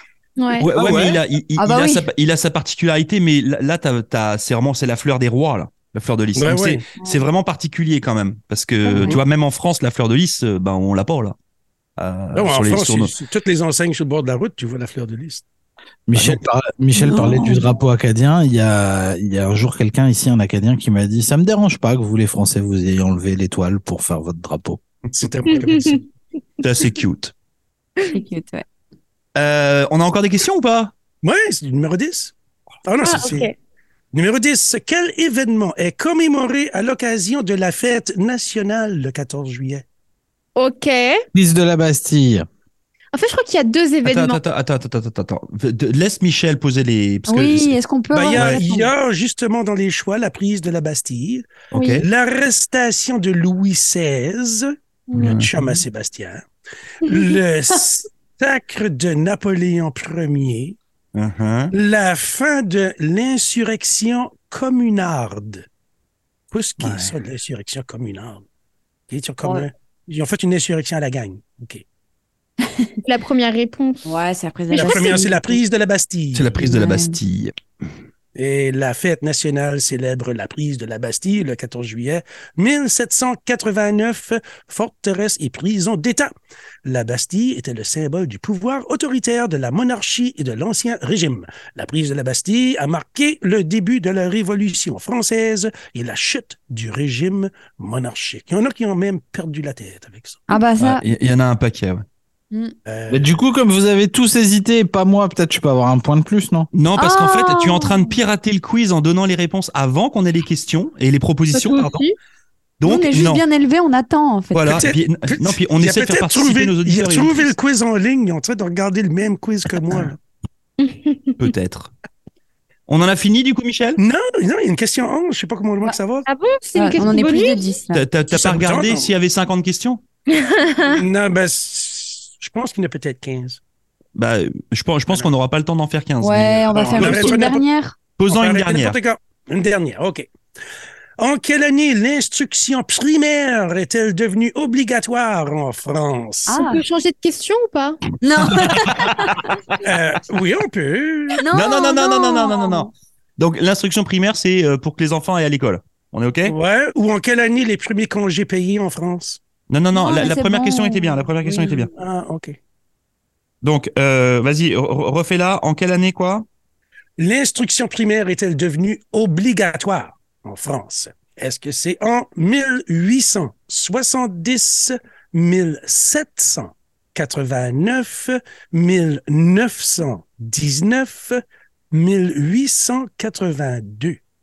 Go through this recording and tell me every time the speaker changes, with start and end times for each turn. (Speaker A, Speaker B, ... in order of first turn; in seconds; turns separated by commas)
Speaker A: 0.4-0.7, Speaker B: 0.6-11.3, Speaker C: 0.8-1.2, Speaker D: 1.6-2.1, Speaker E: 6.3-6.8, Speaker D: 7.0-7.2, Speaker D: 8.9-9.2, Speaker B: 12.0-13.1, Speaker E: 12.3-15.4, Speaker C: 16.1-24.8, Speaker E: 16.1-16.4, Speaker D: 16.9-17.7, Speaker E: 25.2-26.0, Speaker A: 25.5-26.0, Speaker B: 26.6-27.3, Speaker D: 28.1-28.6, Speaker B: 29.4-30.9, Speaker E: 31.2-32.3, Speaker E: 32.8-33.5, Speaker A: 33.0-33.5, Speaker E: 34.1-39.8, Speaker A: 40.5-41.2, Speaker C: 41.3-42.5, Speaker A: 43.1-44.4, Speaker B: 44.0-47.8, Speaker D: 47.3-48.9, Speaker E: 48.1-56.4, Speaker B: 48.3-48.6, Speaker B: 51.7-52.0, Speaker A: 51.7-52.0, Speaker A: 55.1-55.4, Speaker B: 55.1-55.8, Speaker E: 57.0-60.8, Speaker B: 61.1-61.7, Speaker E: 61.7-65.6, Speaker E: 66.5-68.4, Speaker B: 66.8-67.1, Speaker E: 69.1-71.8, Speaker D: 69.4-69.7, Speaker A: 73.0-74.1, Speaker D: 74.0-75.6, Speaker A: 74.7-75.2, Speaker E: 74.7-76.5, Speaker B: 76.3-77.5, Speaker D: 76.6-77.2, Speaker E: 78.3-86.3, Speaker E: 86.8-100.5, Speaker D: 100.5-101.0, Speaker B: 100.8-102.0, Speaker E: 102.8-103.3, Speaker C: 103.1-106.7, Speaker B: 106.7-112.0, Speaker D: 107.0-108.2, Speaker A: 111.5-112.2, Speaker B: 112.8-113.4, Speaker D: 112.8-114.9, Speaker B: 114.5-117.5, Speaker E: 114.7-120.2, Speaker A: 120.8-121.4, Speaker B: 121.4-121.9, Speaker B: 122.9-124.0, Speaker E: 124.0-126.3, Speaker A: 126.2-127.8, Speaker D: 126.8-128.1, Speaker B: 127.9-130.0, Speaker E: 128.3-129.1, Speaker A: 130.3-131.0, Speaker E: 130.8-133.6, Speaker B: 134.1-137.4, Speaker D: 136.2-137.9, Speaker E: 136.7-137.6, Speaker B: 138.2-139.0, Speaker E: 138.3-140.3, Speaker E: 141.2-146.6, Speaker D: 146.5-146.8, Speaker A: 146.6-148.0, Speaker D: 148.2-149.6, Speaker B: 148.4-149.4, Speaker E: 149.8-151.4, Speaker D: 151.3-152.9, Speaker B: 151.5-156.6, Speaker E: 156.5-159.4, Speaker B: 159.7-161.9, Speaker D: 159.9-161.9, Speaker E: 161.9-162.6, Speaker B: 163.6-166.4, Speaker E: 167.2-181.4, Speaker E: 181.9-184.2